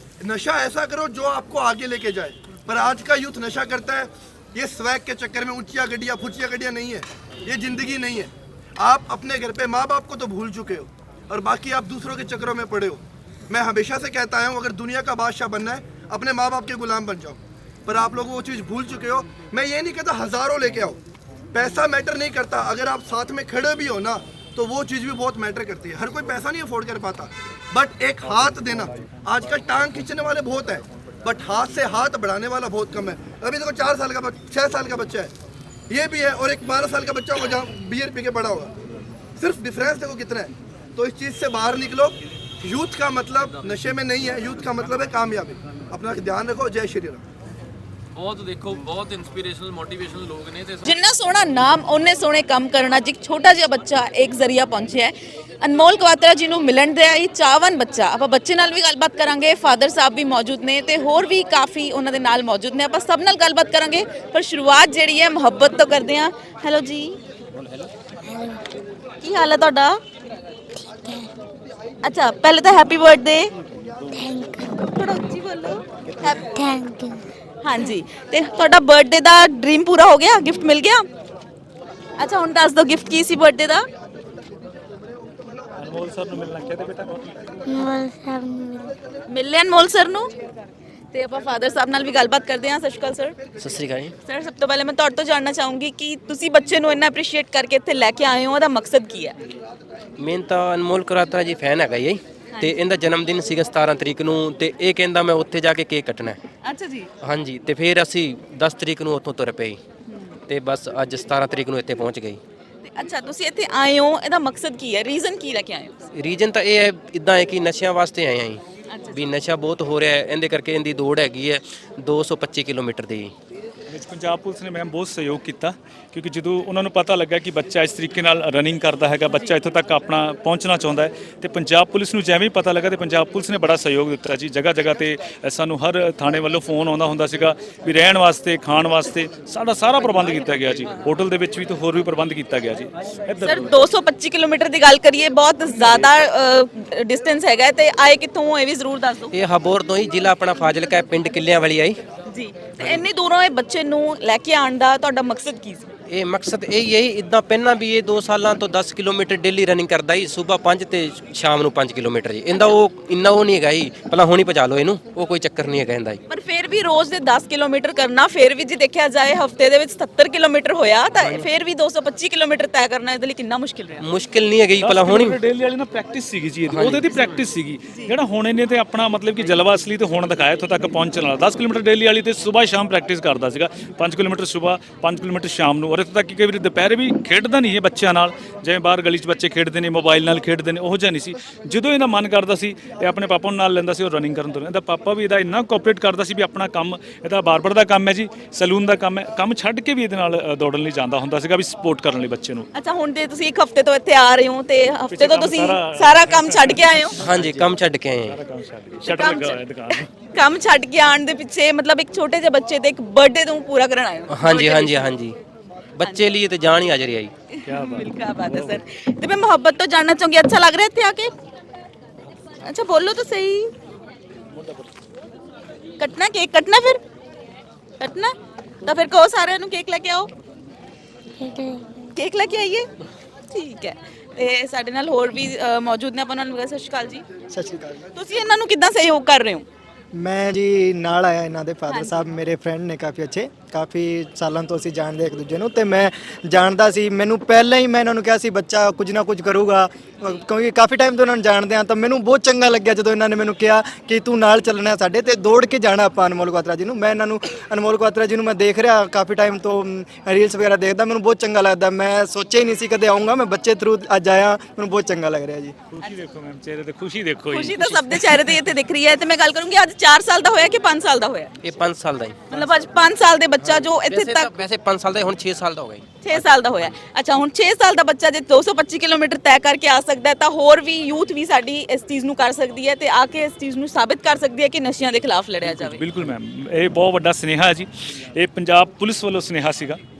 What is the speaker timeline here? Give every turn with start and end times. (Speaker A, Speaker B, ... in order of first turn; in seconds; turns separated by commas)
Speaker A: 0.2-21.0, Speaker A: 21.5-35.3, Speaker A: 35.9-38.7, Speaker A: 39.4-47.2, Speaker B: 48.1-50.9, Speaker C: 50.8-67.2, Speaker D: 68.3-68.6, Speaker C: 69.2-70.0, Speaker D: 70.8-71.3, Speaker C: 72.0-73.5, Speaker D: 74.1-74.7, Speaker C: 74.2-77.0, Speaker D: 76.5-77.2, Speaker C: 77.6-81.0, Speaker C: 82.2-83.8, Speaker E: 85.8-87.5, Speaker D: 87.8-88.9, Speaker C: 87.8-88.5, Speaker C: 89.3-90.3, Speaker C: 91.1-93.3, Speaker F: 93.6-94.1, Speaker C: 94.2-99.4, Speaker F: 100.2-106.4, Speaker C: 106.6-107.1, Speaker F: 107.2-109.8, Speaker C: 110.1-110.4, Speaker F: 110.5-112.4, Speaker C: 112.8-116.1, Speaker F: 116.1-118.6, Speaker C: 118.9-119.2, Speaker F: 119.1-123.3, Speaker E: 123.9-143.8, Speaker C: 143.4-149.3, Speaker F: 149.3-152.0, Speaker C: 152.3-155.9, Speaker F: 156.1-166.2, Speaker C: 166.3-174.1, Speaker F: 171.2-171.4, Speaker F: 174.0-175.4, Speaker E: 174.8-202.7, Speaker F: 176.7-177.1, Speaker C: 202.7-207.2, Speaker E: 205.1-210.1, Speaker F: 207.2-208.4, Speaker C: 209.0-215.2, Speaker F: 214.3-215.3, Speaker F: 216.0-217.3, Speaker C: 216.0-216.3, Speaker C: 217.5-221.3, Speaker E: 217.6-218.8, Speaker C: 222.6-223.7, Speaker E: 224.6-224.8, Speaker C: 226.0-227.0, Speaker C: 228.0-230.3, Speaker D: 231.4-232.1, Speaker C: 232.1-232.9, Speaker C: 233.5-237.2, Speaker G: 237.5-238.1, Speaker C: 238.1-239.7, Speaker G: 240.1-265.7, Speaker C: 241.9-242.2, Speaker E: 265.9-268.6, Speaker C: 267.5-271.5, Speaker F: 271.6-272.4, Speaker C: 272.5-274.5, Speaker F: 273.6-276.2, Speaker C: 276.2-286.0, Speaker E: 285.6-290.0